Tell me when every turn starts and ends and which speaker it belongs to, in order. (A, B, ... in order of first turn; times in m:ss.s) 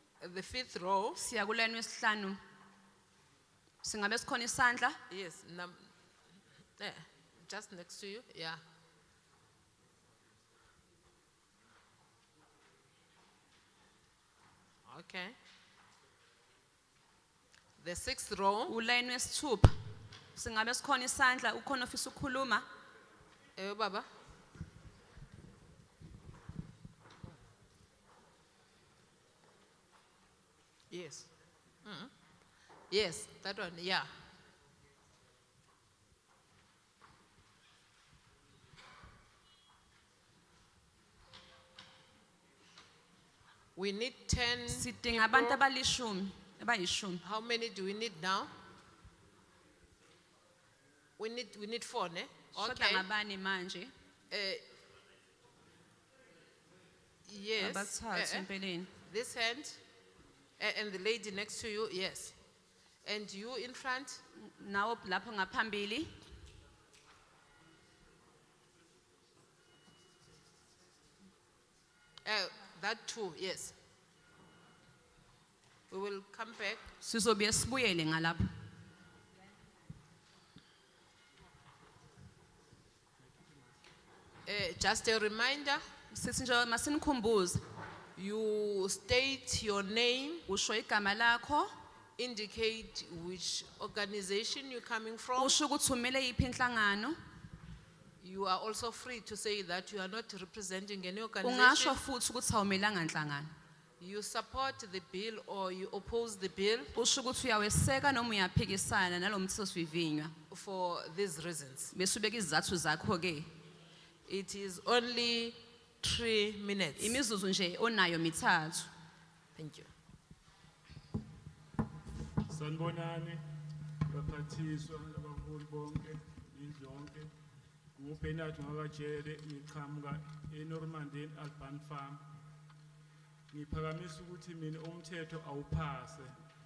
0:00.2-0:01.2 A
0:01.2-0:02.4 B
0:03.8-0:05.0 B
0:05.1-0:05.9 A
0:06.8-0:08.6 A
0:14.8-0:15.4 A
0:17.8-0:18.8 A
0:18.7-0:19.8 B
0:20.4-0:22.7 B
0:23.6-0:24.1 A
0:30.9-0:31.3 A
0:31.8-0:32.1 A
0:32.9-0:34.1 A
0:43.8-0:45.6 A
0:44.7-0:47.2 B
0:47.2-0:48.5 A
0:51.2-0:53.1 A
0:52.5-0:53.9 B
0:54.3-0:54.6 A
0:57.3-0:58.5 A
0:57.6-0:58.9 B
0:59.0-0:59.8 A
1:00.6-1:02.4 A
1:03.0-1:04.2 A
1:04.4-1:06.2 B
1:12.2-1:13.8 A
1:15.9-1:16.9 A
1:17.0-1:18.4 B
1:24.5-1:25.8 A
1:26.1-1:27.6 B
1:28.2-1:30.5 A
1:30.5-1:31.7 B
1:32.2-1:35.6 A
1:35.4-1:37.2 B
1:38.2-1:42.0 A
1:41.4-1:43.5 B
1:44.0-1:46.9 A
1:46.9-1:50.3 B
1:50.5-1:51.9 A
1:51.9-1:53.5 B
1:54.3-1:57.2 A
1:57.0-1:58.9 B
1:59.6-1:59.9 A
2:02.5-2:03.4 C
2:04.1-2:07.3 C
2:08.0-2:12.2 C
2:13.5-2:16.3 C